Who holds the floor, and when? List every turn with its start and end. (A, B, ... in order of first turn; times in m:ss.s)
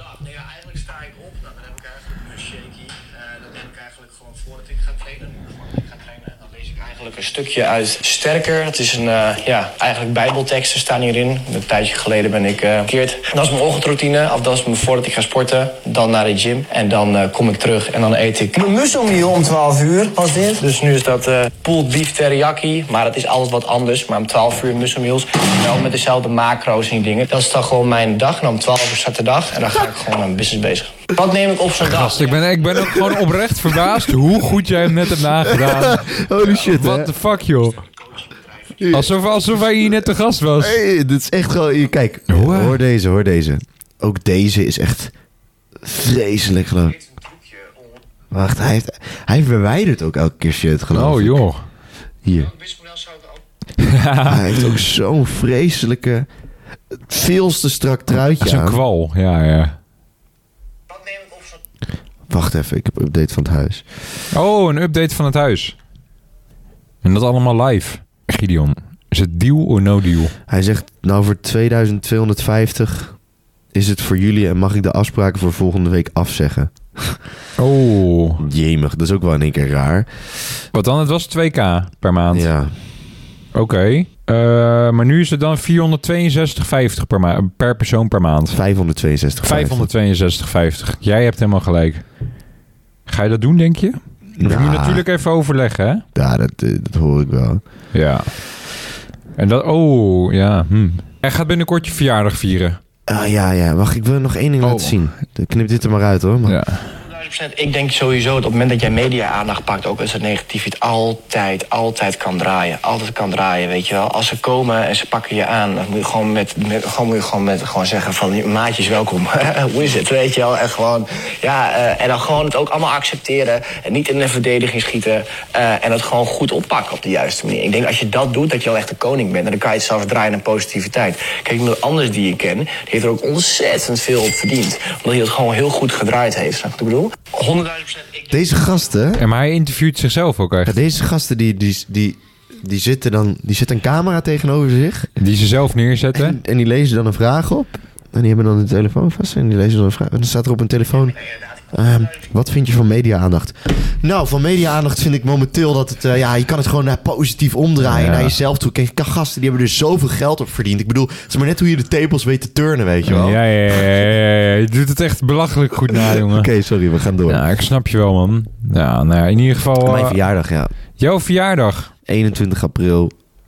0:00.1-0:32.4 A
0:31.8-0:37.8 B
0:35.5-0:37.1 C
0:38.8-0:39.1 C
0:38.9-0:40.8 B
0:40.6-0:45.1 C
0:42.3-0:42.8 B
0:45.8-0:47.0 C
0:48.3-0:51.4 C
0:50.9-0:51.6 B
0:52.2-0:52.6 C
0:52.8-0:53.2 A
0:53.8-0:54.8 B
0:54.2-0:56.3 C
0:57.1-0:58.8 C
0:58.4-0:59.8 B
1:02.3-1:03.8 C
1:04.3-1:05.8 B
1:07.0-1:10.3 B
1:10.5-1:13.2 C
1:13.7-1:17.2 C
1:17.6-1:18.4 B
1:18.4-1:20.1 C
1:20.7-1:22.5 B
1:22.3-1:22.7 C
1:23.5-1:28.6 B
1:28.5-1:29.9 C
1:29.4-1:32.0 B
1:33.1-1:36.0 B
1:34.4-1:35.0 C
1:36.2-1:37.6 C
1:37.9-1:38.3 B
1:39.4-1:42.8 B
1:43.1-1:46.6 C
1:44.6-1:45.0 B
1:46.5-1:46.9 B
1:47.0-2:18.2 A
2:18.3-2:19.2 C
2:19.2-2:20.8 B
2:20.7-2:25.1 C
2:25.2-2:26.4 B
2:26.1-2:31.2 C
2:31.7-2:43.4 C
2:37.8-2:38.4 B
2:43.0-2:46.5 B
2:45.9-2:47.4 C
2:47.3-2:50.2 B
2:49.8-2:50.7 C
2:51.0-2:51.9 B
2:52.1-2:53.1 C